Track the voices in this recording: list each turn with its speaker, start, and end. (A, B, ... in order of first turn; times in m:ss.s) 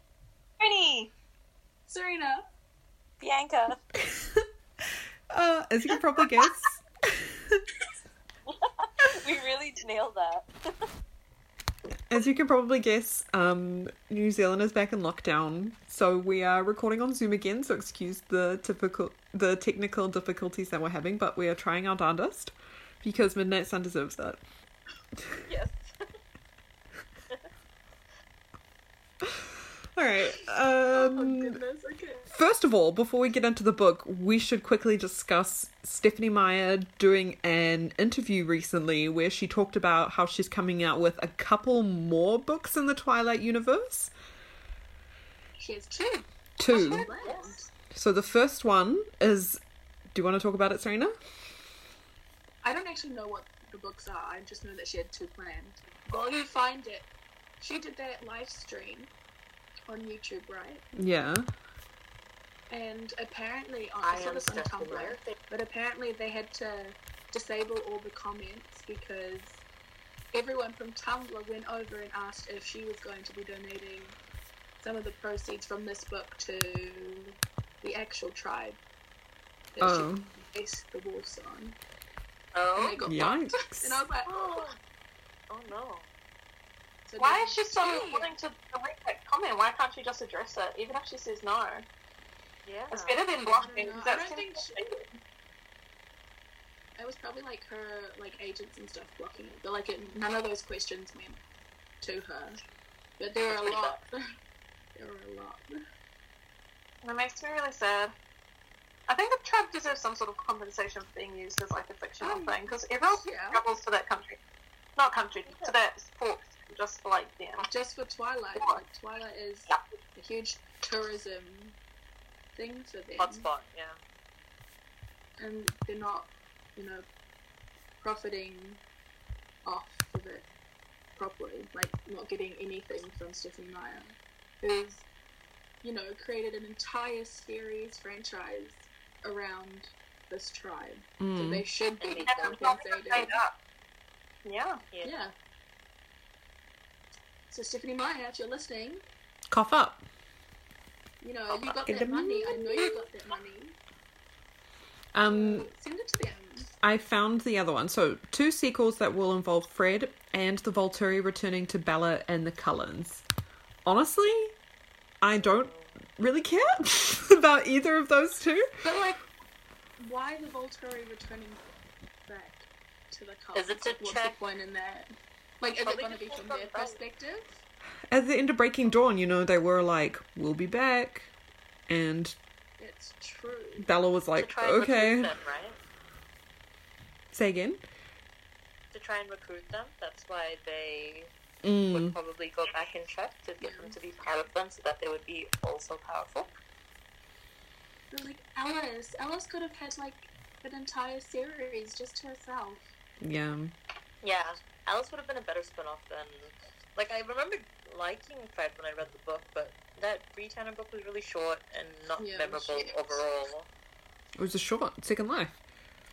0:00.6-0:01.1 A
0:01.9-0:02.5 B
0:03.2-0:03.8 C
0:04.0-0:04.4 D
0:05.3-0:07.6 D
0:08.4-0:10.5 C
0:12.1-0:24.4 D
0:25.4-0:25.9 C
0:29.2-0:31.6 D
0:30.9-0:32.3 B
0:32.3-0:44.1 D
0:45.6-0:47.7 B
0:46.6-0:47.1 D
0:46.7-0:47.3 A
0:47.1-0:47.5 C
0:47.9-0:49.6 D
0:50.1-0:51.1 D
0:52.6-0:57.1 B
0:57.6-0:59.1 B
0:59.9-1:00.8 B
1:00.9-1:01.5 D
1:02.7-1:09.6 B
1:04.0-1:05.4 C
1:10.3-1:14.2 B
1:14.8-1:18.8 B
1:19.8-1:21.8 B
1:19.8-1:20.3 D
1:22.5-1:23.0 C
1:22.7-1:24.6 B
1:23.0-1:24.0 D
1:24.2-1:24.8 C
1:25.5-1:26.1 C
1:27.0-1:28.3 B
1:27.2-1:31.8 A
1:32.6-1:33.2 C
1:32.9-1:35.1 A
1:33.6-1:34.8 B
1:37.0-1:41.4 B
1:42.0-1:42.6 B
1:43.2-1:44.2 B
1:43.5-1:44.0 C
1:44.9-1:45.8 B
1:47.0-1:48.1 A
1:49.1-1:54.4 A
1:52.2-1:52.6 B
1:53.1-1:53.6 B
1:55.0-1:57.6 A
1:57.7-2:01.8 B
2:02.6-2:03.5 B
2:03.2-2:04.0 C
2:05.4-2:07.0 B
2:08.0-2:08.8 B
2:09.6-2:10.5 B
2:11.2-2:15.0 B
2:15.8-2:23.3 B
2:21.2-2:21.6 D
2:22.0-2:22.8 C
2:22.2-2:23.5 A
2:24.4-2:24.8 A
2:24.9-2:25.2 C
2:25.0-2:25.3 B
2:27.5-2:29.0 B
2:29.5-2:30.0 D
2:31.2-2:33.8 B
2:31.9-2:32.6 D
2:35.1-2:35.7 D
2:35.2-2:36.7 B
2:36.8-2:43.2 D
2:43.8-2:44.5 D
2:45.2-2:48.8 D
2:45.4-2:45.9 C
2:48.8-2:49.2 B
2:50.0-2:51.6 B
2:52.3-2:57.6 B
2:53.5-2:54.4 C
2:55.8-2:57.0 C
2:58.1-3:01.3 D
3:01.9-3:02.4 D
3:02.8-3:03.9 B
3:03.8-3:05.3 D
3:04.4-3:05.8 C
3:07.3-3:07.8 D
3:08.9-3:11.3 C
3:11.6-3:12.2 D
3:11.9-3:16.5 C
3:13.6-3:13.9 B
3:18.1-3:22.8 B
3:23.2-3:23.7 D
3:24.2-3:33.7 C
3:32.2-3:33.0 B
3:34.4-3:35.6 D